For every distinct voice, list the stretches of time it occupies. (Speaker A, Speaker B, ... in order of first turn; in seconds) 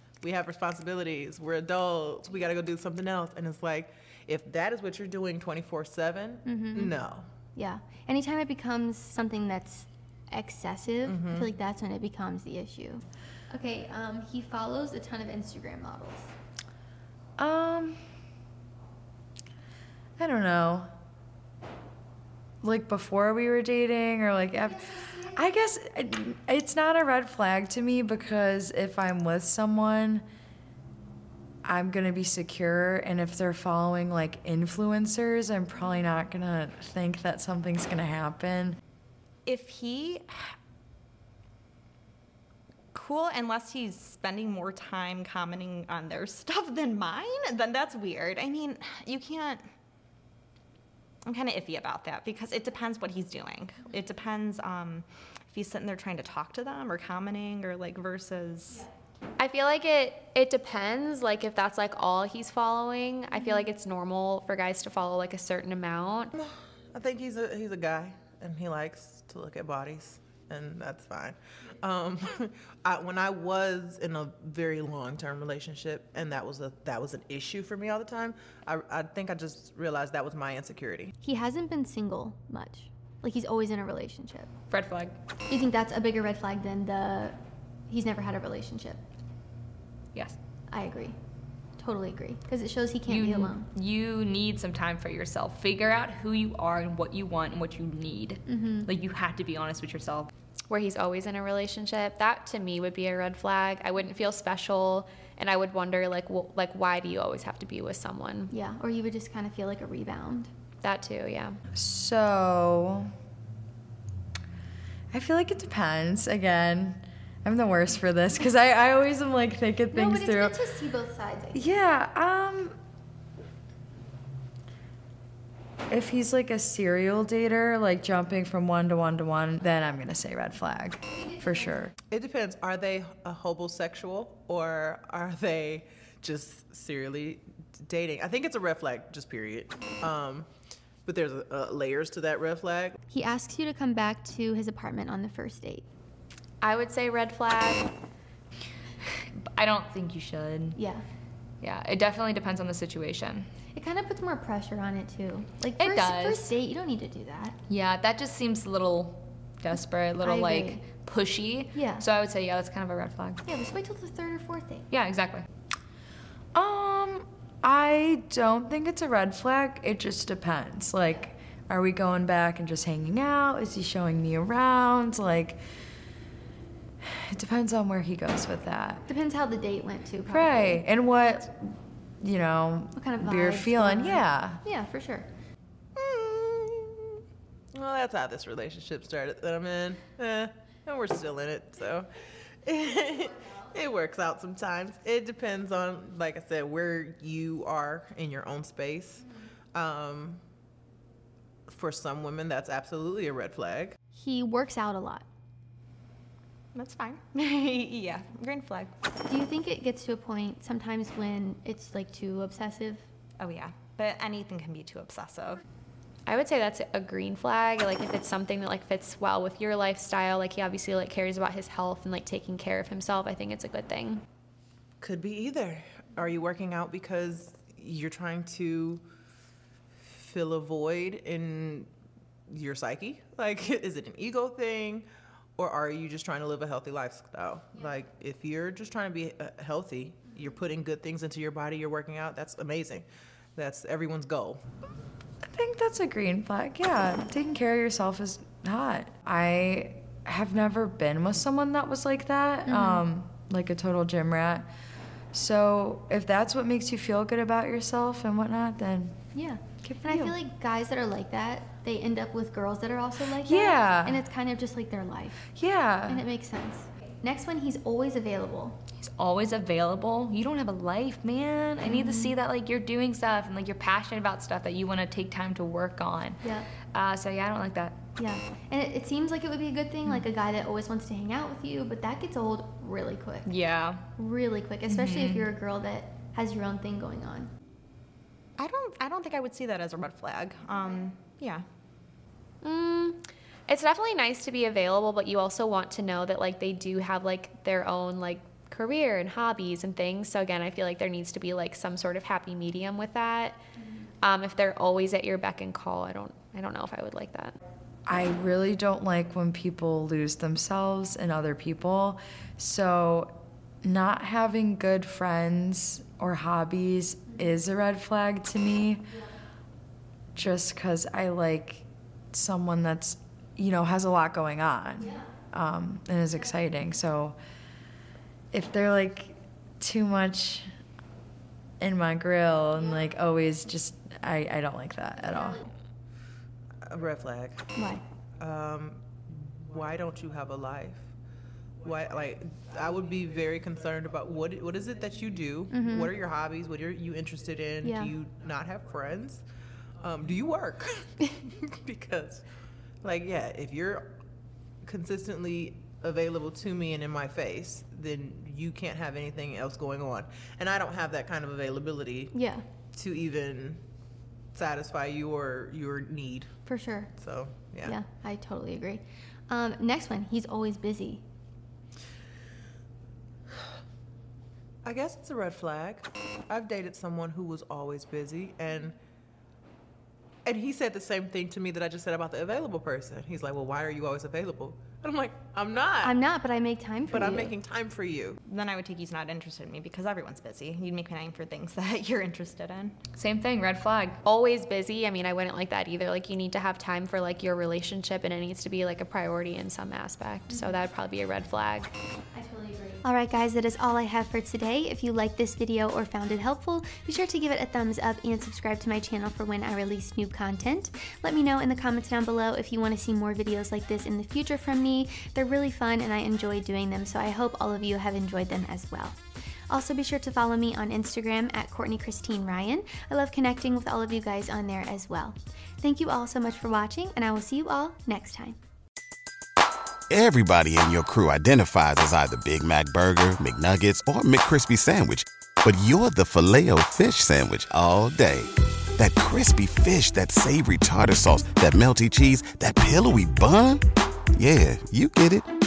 Speaker A: 0.2-7.3, 11.1-11.5, 66.4-81.1, 132.1-140.5, 141.1-143.0, 186.0-187.2, 187.8-192.1, 192.7-200.4, 201.7-204.0, 225.0-229.0, 230.1-231.9, 232.5-235.1, 235.6-244.6, 336.9-337.6, 338.4-339.0, 339.7-341.1, 341.8-349.4, 350.0-352.4, 353.0-354.1, 354.8-362.3, 362.9-363.8, 364.5-366.5, 367.2-368.0, 374.9-379.0, 380.4-386.2, 387.1-388.4
Speaker B: 6.5-6.9, 7.5-16.3, 24.6-25.6, 81.2-84.5, 85.5-87.4, 87.9-89.0, 90.7-91.2, 91.8-93.7, 98.5-98.9, 108.5-110.5, 119.9-121.7, 131.1-131.7, 143.1-145.9, 150.8-151.1, 153.7-157.6, 160.2-160.8, 161.7-162.0, 163.4-164.9, 179.1-180.8, 183.0-185.3, 204.2-205.2, 209.2-213.0, 252.7-253.1, 259.3-265.5, 266.1-268.8, 271.8-272.4, 276.4-276.7, 278.2-283.5, 284.2-287.5, 325.0-325.3, 332.8-333.0, 335.2-335.7, 337.8-338.0, 345.7-346.1, 347.8-348.1, 362.3-362.6, 366.7-367.1, 367.8-371.2, 386.0-387.6, 400.5-400.8, 402.3-419.2, 419.7-428.6
Speaker C: 17.4-18.0, 20.2-20.9, 22.6-30.2, 31.6-38.8, 111.8-113.1, 115.1-120.6, 121.5-122.8, 125.9-131.9, 166.5-175.6, 177.0-179.0, 180.3-184.6, 245.4-254.7, 255.3-259.2, 259.8-260.4, 263.4-264.2, 265.5-266.2, 308.1-319.1, 320.4-327.4, 328.5-330.7, 331.8-335.6
Speaker D: 39.5-40.5, 42.9-49.6, 51.3-58.9, 206.8-208.9, 213.4-215.6, 288.6-291.6, 388.5-393.0
Speaker E: 59.4-66.3, 100.7-108.5, 110.8-111.6, 146.6-147.9, 216.3-224.2, 292.6-303.6, 304.2-307.6, 394.2-401.9
Speaker F: 84.7-85.2, 93.1-100.3, 149.5-150.8, 151.6-153.5, 155.8-156.6, 157.7-163.4, 164.9-165.5, 269.0-276.4, 276.9-278.0, 283.5-284.0, 284.9-285.5, 393.1-394.2
Speaker G: 430.1-443.8, 444.4-445.5